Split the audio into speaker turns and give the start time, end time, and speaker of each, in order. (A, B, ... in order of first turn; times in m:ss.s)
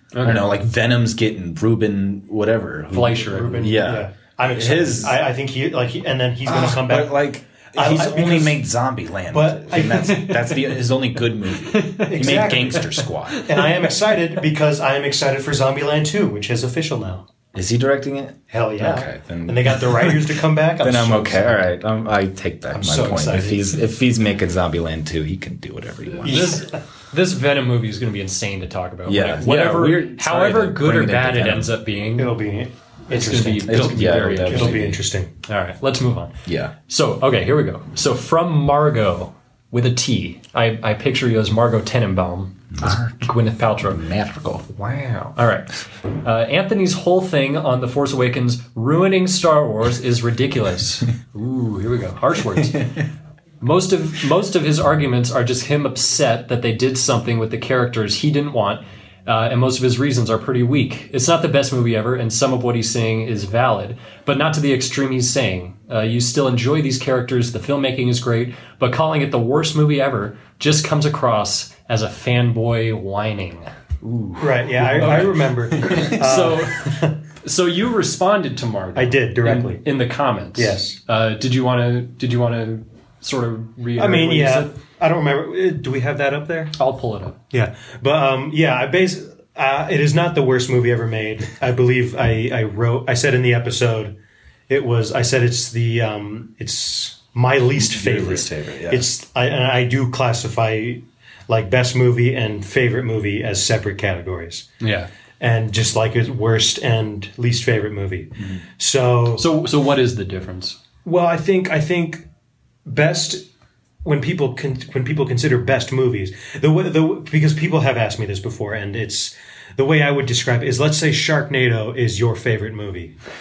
0:00.2-0:00.6 A
0:00.2-0:05.2 B
0:02.9-0:03.8 A
0:03.3-0:07.2 C
0:06.4-0:13.4 B
0:07.7-0:08.6 C
0:09.3-0:10.6 C
0:10.0-0:10.5 A
0:11.7-0:13.9 A
0:12.0-0:17.2 C
0:17.5-0:26.6 B
0:18.5-0:21.7 C
0:22.7-0:23.8 C
0:26.2-0:32.3 A
0:26.2-0:26.6 C
0:29.1-0:31.7 B
0:32.2-0:35.3 C
0:33.1-0:34.8 A
0:33.7-0:35.0 B
0:35.4-0:36.3 A
0:36.4-0:36.7 B
0:36.9-0:44.0 A
0:42.8-0:43.3 B
0:43.9-0:44.8 B
0:44.8-0:53.0 A
0:53.6-1:24.7 A
1:14.4-1:17.2 C
1:19.0-1:19.8 C
1:20.6-1:21.0 C
1:24.0-1:26.7 C
1:26.8-1:27.4 A
1:27.5-1:34.1 C
1:34.7-1:44.7 C
1:37.8-1:39.1 B
1:44.8-1:45.1 A
1:45.4-1:49.5 C
1:49.4-1:50.8 A
1:51.0-1:52.2 C
1:52.9-1:53.4 C
1:54.0-2:03.2 C